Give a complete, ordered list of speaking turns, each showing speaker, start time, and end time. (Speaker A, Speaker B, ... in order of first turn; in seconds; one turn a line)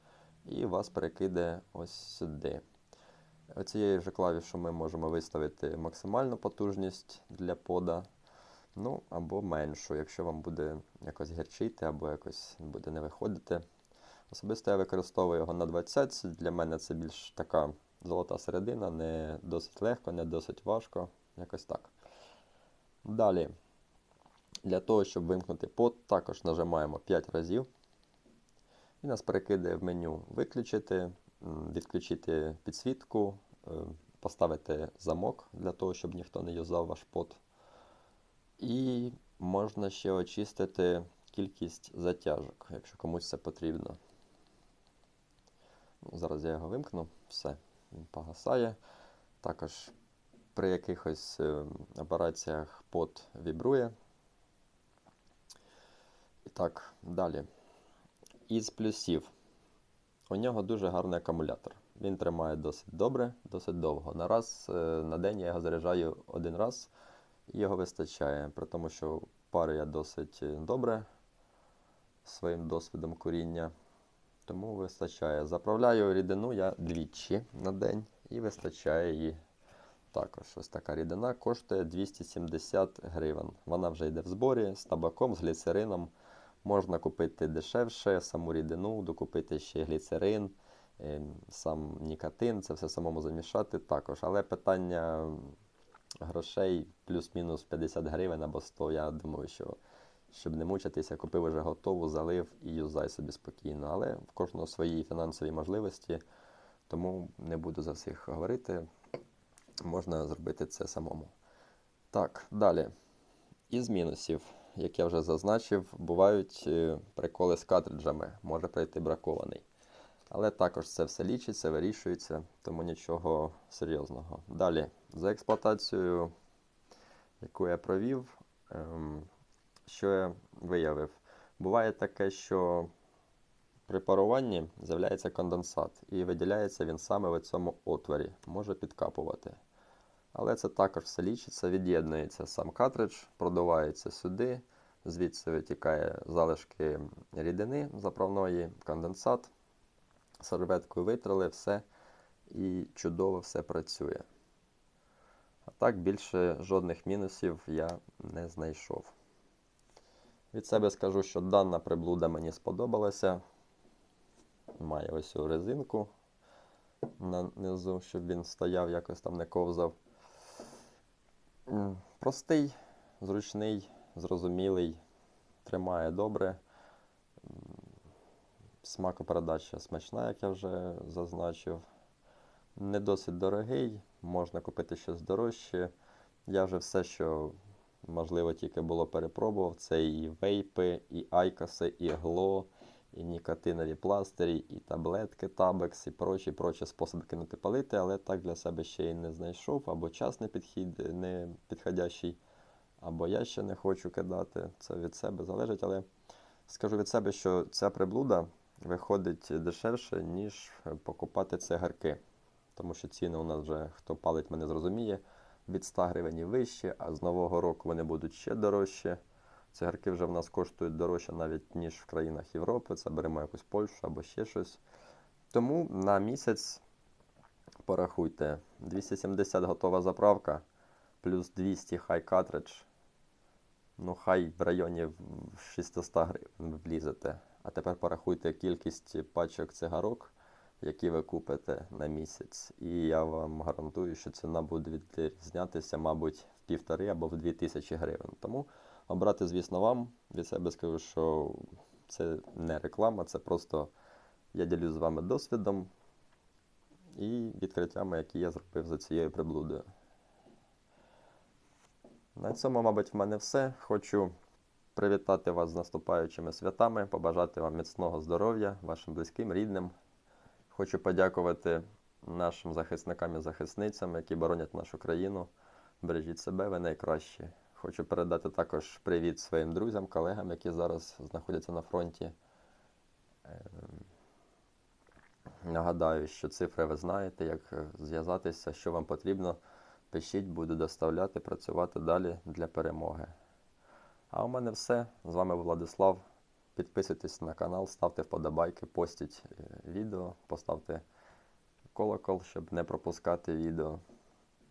Speaker A: 0.5-2.6
Speaker A: 3.5-8.1
Speaker A: 8.8-13.7
Speaker A: 14.3-21.9
Speaker A: 23.0-23.5
Speaker A: 24.6-27.7
Speaker A: 29.0-37.4
Speaker A: 38.6-44.0
Speaker A: 46.0-48.8
Speaker A: 49.4-49.9
Speaker A: 50.5-53.9
Speaker A: 56.5-57.5
Speaker A: 58.5-59.3
Speaker A: 60.3-66.9
Speaker A: 67.5-71.1
Speaker A: 72.2-73.7
Speaker A: 74.5-79.4
Speaker A: 80.1-86.1
Speaker A: 86.6-95.6
Speaker A: 96.2-99.8
Speaker A: 100.3-106.2
Speaker A: 106.9-108.9
Speaker A: 109.8-111.3
Speaker A: 112.1-112.9
Speaker A: 113.7-119.7
Speaker A: 120.3-126.3
Speaker A: 127.4-129.3
Speaker A: 129.9-132.9
Speaker A: 133.9-139.6
Speaker A: 140.3-149.5
Speaker A: 150.4-151.8
Speaker A: 152.5-154.3
Speaker A: 155.7-159.1
Speaker A: 160.5-163.4
Speaker A: 164.8-166.1
Speaker A: 167.2-170.0
Speaker A: 171.7-175.0
Speaker A: 175.6-176.6
Speaker A: 177.4-177.9
Speaker A: 178.8-181.8
Speaker A: 182.8-185.9
Speaker A: 186.5-202.4
Speaker A: 203.0-206.1
Speaker A: 206.7-212.2
Speaker A: 212.8-219.2
Speaker A: 219.7-224.8
Speaker A: 225.5-226.8
Speaker A: 227.8-230.6
Speaker A: 231.2-232.9
Speaker A: 234.0-253.9
Speaker A: 254.5-255.9
Speaker A: 257.1-259.9
Speaker A: 262.4-264.3
Speaker A: 264.9-269.9
Speaker A: 270.7-282.4
Speaker A: 283.4-284.1
Speaker A: 285.6-289.6
Speaker A: 290.1-293.3
Speaker A: 294.3-296.2
Speaker A: 296.8-301.0
Speaker A: 301.9-304.0